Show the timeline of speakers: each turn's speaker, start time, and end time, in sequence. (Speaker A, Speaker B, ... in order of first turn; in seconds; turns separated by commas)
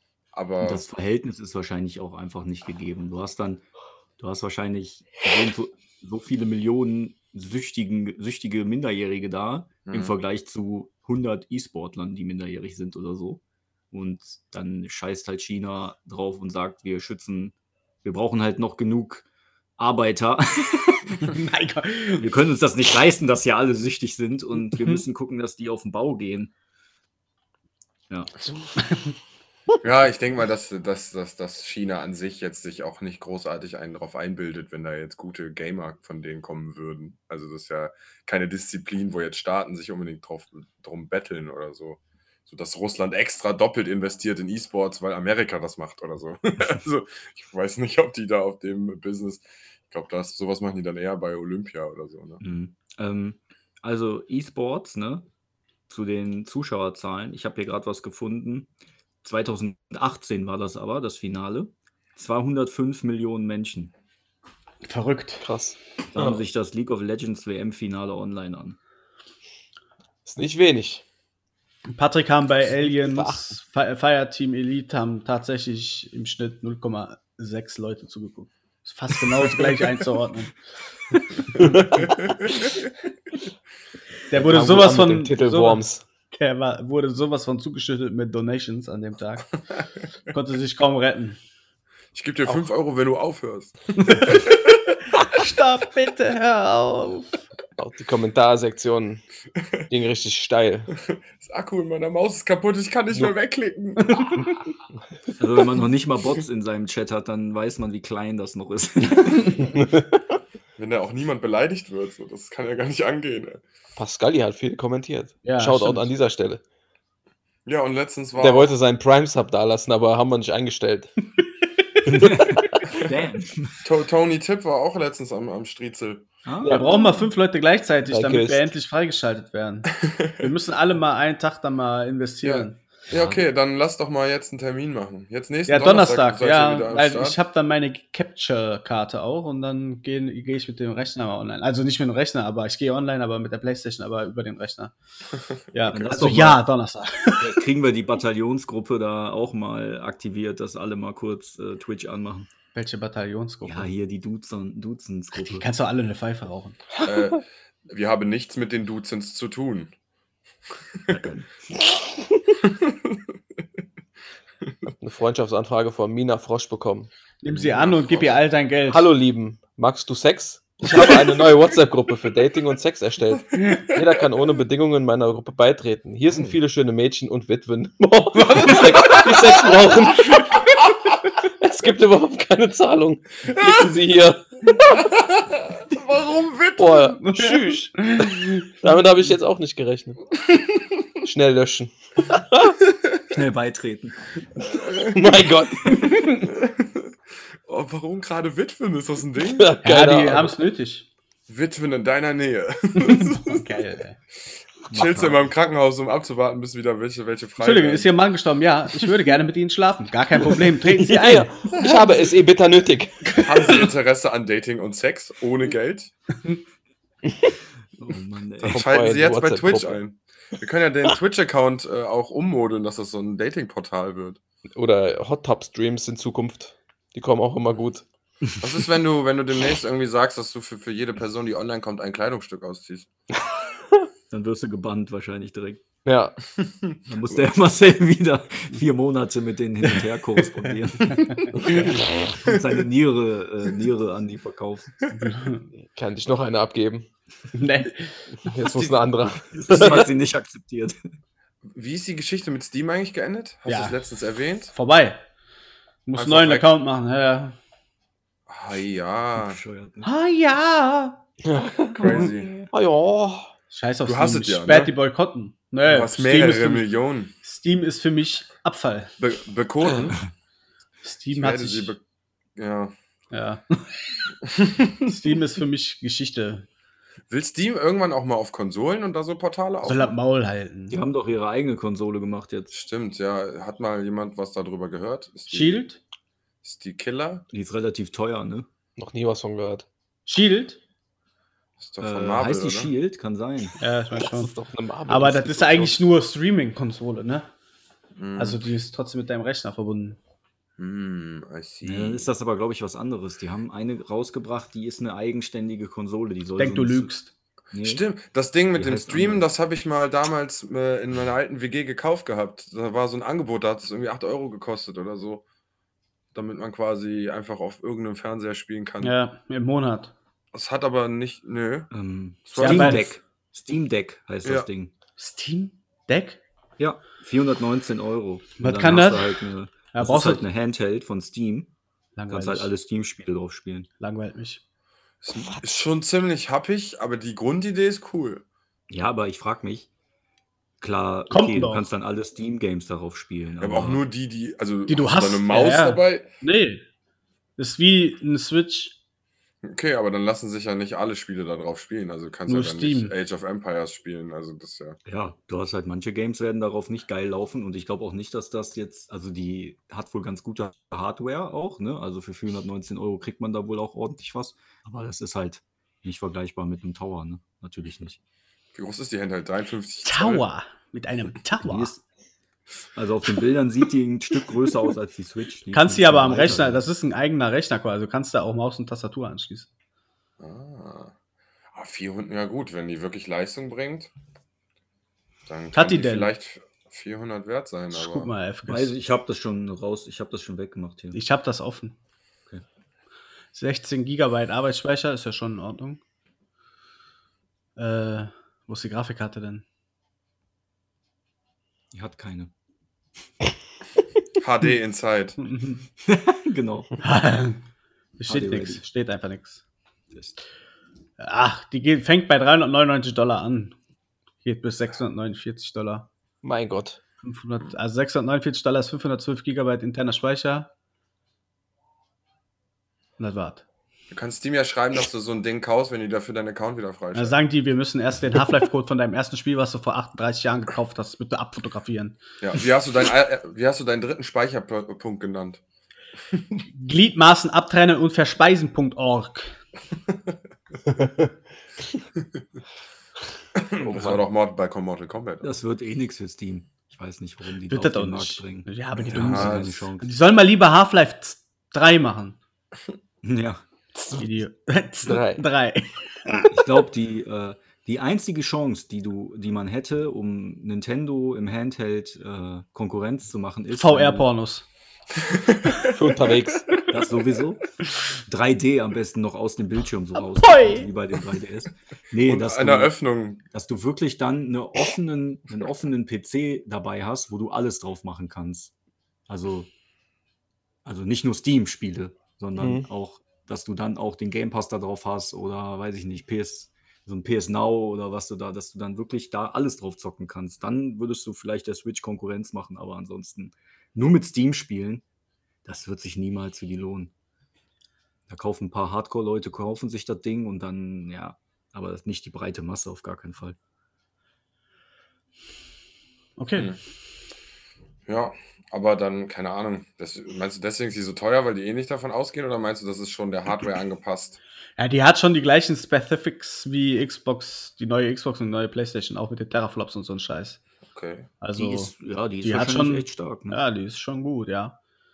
Speaker A: 0.3-0.8, Speaker B: 0.6-3.6, Speaker B: 4.2-19.2, Speaker A: 9.8-10.1, Speaker B: 19.8-21.4, Speaker C: 21.3-22.3, Speaker B: 22.2-26.5, Speaker A: 29.8-52.4, Speaker B: 52.4-55.3, Speaker B: 55.9-58.7, Speaker B: 59.2-63.9, Speaker C: 64.8-65.5, Speaker D: 65.4-66.4, Speaker B: 66.1-68.8, Speaker D: 70.2-71.0, Speaker C: 71.9-80.5, Speaker D: 72.7-73.5, Speaker C: 81.3-81.8, Speaker A: 81.6-82.7, Speaker C: 84.3-89.5, Speaker D: 84.3-86.0, Speaker C: 90.3-91.4, Speaker A: 92.1-94.8, Speaker C: 95.3-97.4, Speaker D: 97.8-99.2, Speaker D: 99.9-100.9, Speaker A: 101.1-104.5, Speaker B: 105.4-109.7, Speaker D: 109.6-110.2, Speaker A: 110.8-113.6, Speaker D: 114.0-116.6, Speaker C: 115.4-116.1, Speaker A: 117.7-118.7, Speaker D: 118.4-121.1, Speaker B: 122.0-123.8, Speaker D: 122.1-123.0, Speaker A: 123.8-126.3, Speaker B: 126.4-126.9, Speaker D: 126.6-126.9, Speaker C: 126.7-132.8, Speaker D: 128.1-128.7, Speaker A: 130.0-130.5, Speaker A: 132.4-137.4, Speaker B: 133.1-133.4, Speaker C: 135.7-144.9, Speaker C: 145.7-147.6, Speaker B: 145.9-146.6, Speaker B: 147.4-152.5, Speaker C: 152.7-153.9, Speaker B: 153.6-155.7, Speaker C: 155.4-156.8, Speaker A: 157.0-159.9, Speaker B: 161.1-161.5, Speaker A: 162.6-163.2, Speaker D: 164.9-167.1, Speaker C: 167.4-169.1, Speaker A: 167.6-168.3, Speaker D: 168.9-180.8, Speaker A: 176.3-176.6, Speaker C: 178.4-179.3, Speaker D: 181.4-184.8, Speaker A: 185.0-187.1, Speaker D: 186.8-190.2, Speaker C: 187.2-188.7, Speaker D: 191.2-192.8, Speaker B: 193.3-194.2, Speaker A: 194.6-197.1, Speaker D: 195.1-196.2, Speaker A: 197.7-199.8, Speaker D: 199.5-200.5, Speaker C: 199.8-201.1, Speaker A: 201.5-203.7, Speaker C: 203.0-204.2, Speaker B: 204.9-205.5, Speaker A: 204.9-208.1, Speaker C: 207.6-211.7, Speaker D: 210.8-213.9, Speaker C: 213.4-213.7, Speaker A: 213.4-216.1, Speaker D: 217.3-217.5, Speaker B: 218.0-218.8, Speaker A: 218.6-224.4, Speaker D: 218.7-220.0, Speaker D: 224.7-228.0, Speaker A: 228.6-233.1, Speaker B: 234.3-235.8, Speaker D: 236.0-236.3, Speaker A: 236.6-237.0, Speaker B: 237.1-244.9, Speaker C: 241.1-241.8, Speaker C: 245.1-245.7, Speaker D: 245.8-247.1, Speaker C: 247.5-248.5, Speaker D: 248.4-250.1, Speaker B: 249.5-251.0, Speaker A: 249.7-250.0, Speaker A: 251.7-254.7, Speaker C: 253.7-254.0, Speaker C: 254.7-255.2, Speaker C: 256.1-257.6, Speaker A: 256.1-256.6, Speaker A: 258.5-259.6, Speaker B: 259.4-260.1, Speaker C: 260.0-261.2, Speaker D: 261.4-263.5, Speaker A: 262.0-262.6, Speaker C: 263.7-266.9, Speaker A: 264.0-264.9, Speaker A: 265.9-267.3, Speaker C: 267.4-269.1, Speaker A: 269.2-270.3, Speaker C: 271.0-271.9, Speaker A: 271.3-272.0, Speaker A: 272.6-272.9, Speaker C: 273.3-274.2, Speaker A: 274.5-275.1, Speaker C: 275.0-276.7, Speaker A: 277.3-280.1, Speaker C: 279.8-281.0, Speaker B: 280.9-282.7, Speaker A: 282.7-285.8, Speaker C: 285.5-286.0, Speaker A: 286.6-287.4, Speaker B: 287.5-288.6, Speaker D: 289.0-289.9, Speaker C: 290.2-290.8, Speaker A: 291.8-292.9, Speaker B: 292.0-293.7, Speaker C: 293.8-294.5, Speaker D: 294.1-296.0, Speaker C: 295.1-297.5, Speaker A: 298.1-298.6, Speaker C: 298.4-300.2, Speaker A: 300.8-302.3, Speaker B: 301.8-307.1, Speaker C: 306.6-307.3, Speaker B: 307.7-308.0, Speaker A: 307.8-315.4, Speaker B: 308.7-309.5, Speaker A: 316.3-319.1, Speaker C: 319.0-320.1, Speaker A: 320.5-321.9, Speaker B: 321.9-324.9, Speaker A: 322.5-323.1, Speaker C: 322.6-323.1, Speaker C: 325.2-326.4, Speaker B: 326.8-331.7, Speaker C: 328.6-330.4, Speaker C: 332.1-332.7, Speaker B: 332.3-333.9, Speaker C: 334.0-334.6, Speaker A: 335.2-338.4, Speaker D: 335.4-335.8, Speaker B: 338.9-339.9, Speaker B: 340.8-344.0, Speaker C: 341.3-341.9, Speaker A: 343.6-346.3, Speaker C: 344.9-346.8, Speaker C: 347.6-349.0, Speaker A: 349.6-355.0, Speaker C: 352.5-353.1, Speaker B: 355.1-368.2, Speaker A: 368.7-370.4, Speaker C: 370.0-371.9, Speaker B: 371.6-372.0, Speaker B: 372.9-376.8, Speaker C: 375.7-379.7, Speaker A: 380.4-381.1, Speaker A: 381.7-384.1, Speaker A: 385.5-388.3, Speaker C: 385.7-386.3, Speaker C: 387.9-388.9, Speaker B: 388.7-391.2, Speaker C: 391.1-391.9, Speaker C: 393.5-396.0, Speaker C: 397.8-399.6, Speaker B: 401.9-402.5, Speaker A: 404.4-405.4, Speaker C: 405.4-405.8, Speaker B: 406.0-406.9, Speaker C: 407.0-407.6, Speaker C: 408.2-409.6, Speaker B: 408.3-408.8, Speaker B: 410.1-410.4, Speaker C: 411.2-413.7, Speaker C: 414.4-416.1, Speaker D: 416.4-417.0, Speaker C: 417.2-420.7, Speaker C: 423.2-423.6, Speaker A: 424.1-427.3, Speaker C: 427.1-432.2, Speaker A: 432.4-435.6, Speaker A: 436.3-436.6, Speaker C: 436.7-439.6, Speaker A: 443.6-445.6, Speaker D: 443.8-444.2, Speaker B: 445.4-450.1, Speaker C: 447.7-452.4, Speaker A: 449.1-449.7, Speaker B: 453.2-453.6, Speaker C: 454.2-456.5, Speaker D: 455.0-455.4, Speaker B: 456.5-464.2, Speaker C: 463.7-464.6, Speaker A: 465.2-465.9, Speaker D: 465.9-466.7, Speaker B: 466.9-472.9, Speaker C: 470.3-470.9, Speaker A: 472.2-473.4, Speaker B: 473.5-478.7, Speaker B: 479.3-479.7, Speaker B: 480.8-495.0, Speaker D: 482.6-482.9, Speaker B: 495.6-497.1, Speaker B: 498.3-503.6, Speaker C: 506.4-506.7, Speaker A: 508.1-514.4, Speaker C: 514.8-520.6, Speaker A: 520.9-521.3, Speaker C: 521.4-521.9, Speaker B: 521.5-523.6, Speaker C: 522.4-524.8